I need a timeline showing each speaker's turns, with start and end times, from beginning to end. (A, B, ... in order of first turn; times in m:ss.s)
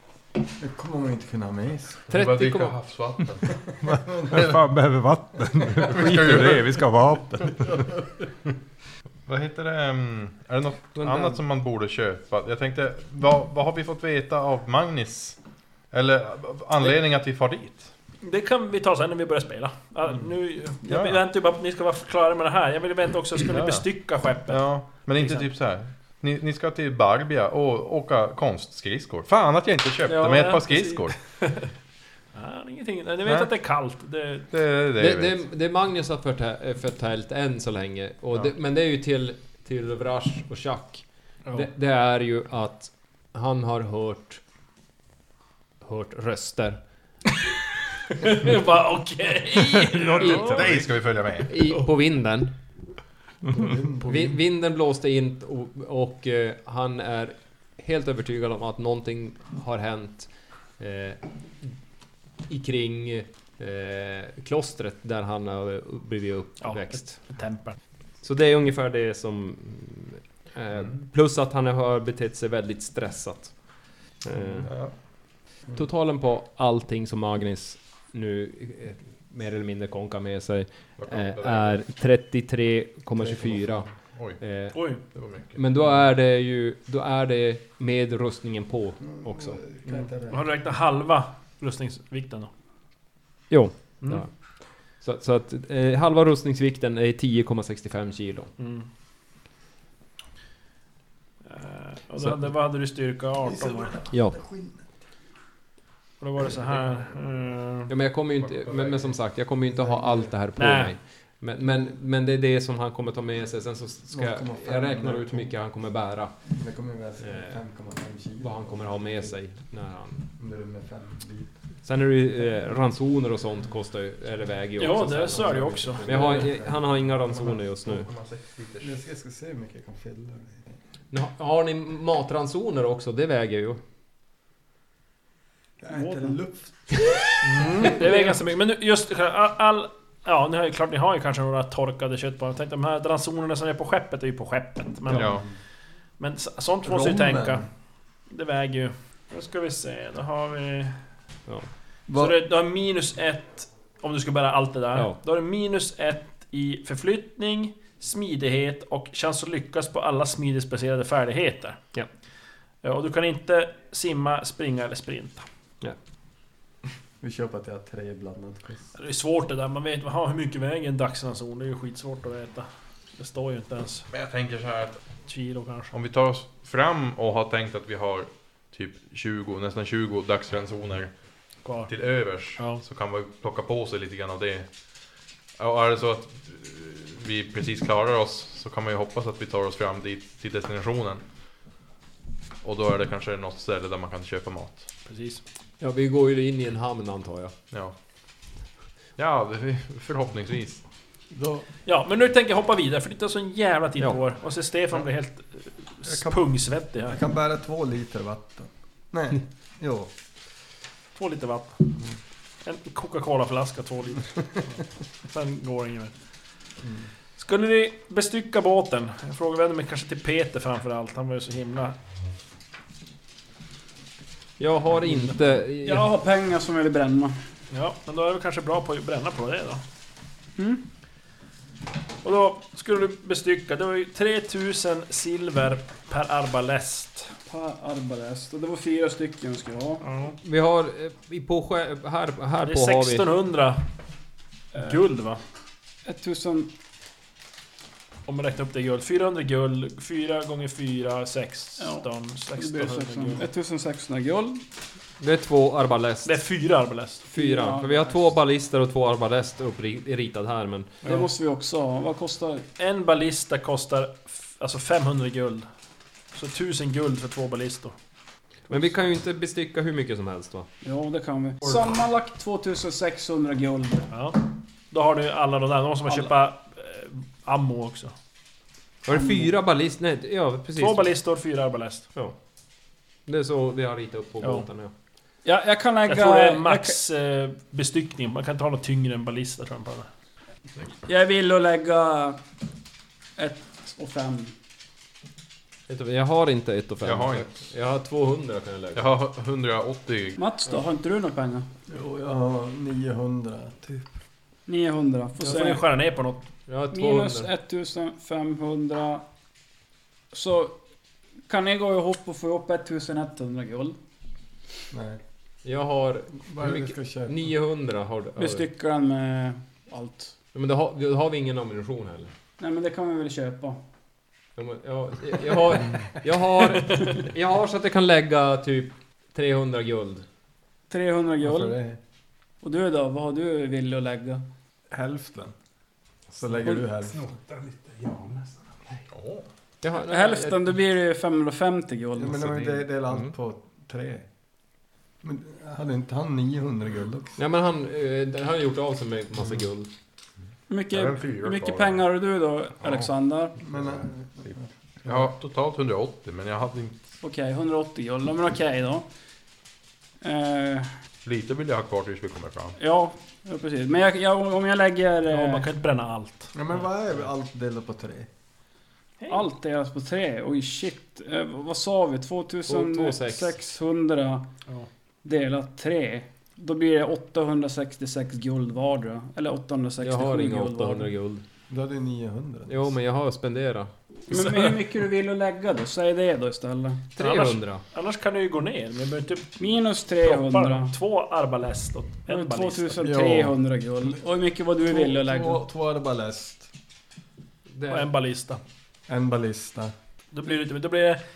0:00.4-0:02.0 A
0:02.1-0:02.8 B
0:02.1-0:03.6 C
0:03.5-0:04.6 A
0:03.8-0:07.9 D
0:05.8-0:06.7 C
0:07.6-0:08.0 A
0:09.3-0:15.4 C
0:11.0-0:11.4 B
0:15.9-0:17.9 C
0:18.2-0:25.5 E
0:20.8-0:21.2 C
0:23.5-0:23.8 C
0:24.5-0:31.2 C
0:30.0-0:31.7 E
0:32.3-0:34.5 E
0:34.5-0:35.4 C
0:35.0-0:44.4 B
0:45.8-0:46.8 B
0:48.1-0:50.7 E
0:49.8-0:50.8 D
0:50.2-0:51.5 C
0:51.5-0:52.5 B
0:53.4-0:53.7 D
0:53.5-0:54.4 A
0:54.0-1:01.7 B
1:02.5-1:07.2 B
1:06.6-1:07.8 E
1:08.2-1:14.7 B
1:14.6-1:14.9 C
1:15.7-1:24.8 B
1:21.0-1:21.8 C
1:24.1-1:24.4 C
1:24.7-1:25.0 E
1:25.0-1:25.6 C
1:25.5-1:29.6 B
1:29.1-1:30.4 A
1:30.3-1:32.5 E
1:33.5-1:38.5 B
1:38.6-1:38.9 E
1:41.4-1:44.0 E
1:42.2-1:42.5 B
1:43.4-1:44.9 A
1:44.1-1:44.4 B
1:46.2-1:47.9 E
1:47.9-1:56.5 B
1:48.4-1:49.1 C
1:49.6-1:50.3 A
1:50.6-1:50.9 E
1:54.1-1:55.5 A
1:56.5-1:59.3 A
1:57.2-1:57.6 B
1:58.4-2:00.2 B
2:00.4-2:01.5 A
2:01.8-2:08.1 B
2:04.8-2:06.0 E
2:05.3-2:07.1 A
2:07.5-2:08.9 C
2:08.8-2:10.8 A
2:11.1-2:13.8 B
2:15.8-2:17.9 A
2:15.9-2:16.4 F
2:17.4-2:25.4 E
2:25.1-2:25.4 C
2:25.2-2:25.5 A
2:26.2-2:27.6 E
2:26.8-2:27.7 A
2:28.3-2:31.0 E
2:32.1-2:32.4 A
2:32.1-2:41.8 E
2:42.8-2:45.4 E
2:47.2-2:48.9 A
2:48.9-2:54.1 E
2:54.1-2:55.0 C
2:55.2-2:55.9 E
2:55.9-3:01.2 C
3:01.6-3:01.9 E
3:01.8-3:04.7 C
3:02.6-3:02.8 E
3:05.6-3:11.2 C
3:12.6-3:14.8 C
3:15.0-3:15.4 E
3:15.8-3:17.5 B
3:19.2-3:20.8 C
3:21.3-3:21.6 A
3:21.8-3:27.2 E
3:26.0-3:26.4 A
3:27.0-3:30.1 A
3:31.1-3:31.9 E
3:32.6-3:36.1 E
3:36.8-3:37.1 A
3:37.4-3:41.9 E
3:44.6-3:46.1 B
3:45.8-3:47.4 F
3:47.7-3:49.8 E
3:50.6-3:50.8 F
3:52.2-3:57.3 E
3:57.5-4:00.0 F
4:00.0-4:00.4 E
4:00.4-4:03.3 B
4:02.6-4:03.8 E
4:04.8-4:05.4 E
4:06.0-4:06.7 F
4:08.3-4:13.4 E
4:11.8-4:14.6 F
4:15.2-4:16.4 B
4:16.2-4:17.2 E
4:17.2-4:18.4 F
4:17.3-4:21.2 B
4:21.0-4:22.6 F
4:22.8-4:25.7 E
4:26.3-4:27.9 E
4:28.7-4:30.7 B
4:30.8-4:34.1 F
4:34.1-4:38.1 E
4:36.1-4:36.3 F
4:39.0-4:41.2 B
4:39.1-4:39.6 F
4:40.8-4:42.1 E
4:43.2-4:44.9 B
4:44.4-4:44.7 E
4:45.4-4:47.0 F
4:46.0-4:50.1 E
4:51.0-4:52.4 F
4:53.4-4:54.5 F
4:55.9-4:59.1 B
4:57.0-4:57.5 C
4:58.9-5:00.4 C
5:00.4-5:01.7 F
5:01.9-5:04.1 A
5:04.7-5:05.8 F
5:05.4-5:06.4 E
5:06.7-5:07.5 B
5:06.9-5:09.2 F
5:10.3-5:10.8 F
5:11.5-5:14.0 F
5:14.9-5:15.2 A
5:15.6-5:18.7 B
5:16.4-5:17.4 A
5:18.4-5:20.3 F
5:20.5-5:22.3 B
5:22.6-5:23.8 F
5:24.6-5:30.2 B
5:30.9-5:31.8 F
5:31.4-5:32.0 A
5:32.6-5:34.4 F
5:34.9-5:35.5 A
5:36.3-5:37.2 A
5:37.1-5:38.6 D
5:39.1-5:39.4 C
5:39.8-5:40.7 B
5:40.0-5:42.4 F
5:42.2-5:44.3 A
5:45.2-5:47.4 A
5:47.4-5:49.9 B
5:50.7-5:53.6 F
5:50.9-5:52.0 C
5:53.6-5:55.3 A
5:55.0-5:57.1 C
5:57.2-5:59.0 F
6:00.2-6:00.9 F
6:01.2-6:02.8 C
6:02.8-6:05.7 F
6:05.3-6:06.5 E
6:06.5-6:08.3 A
6:09.3-6:14.5 F
6:12.6-6:13.6 B
6:15.2-6:21.1 F
6:20.0-6:21.4 B
6:21.7-6:22.9 A
6:22.7-6:24.4 B
6:24.3-6:27.1 F
6:27.2-6:27.8 B
6:27.2-6:29.6 E
6:29.6-6:30.9 F
6:30.2-6:33.0 E
6:32.3-6:35.6 F
6:33.0-6:33.6 A
6:34.9-6:36.7 A
6:37.7-6:38.1 B
6:37.9-6:38.6 E
6:39.1-6:39.9 A
6:40.3-6:41.2 E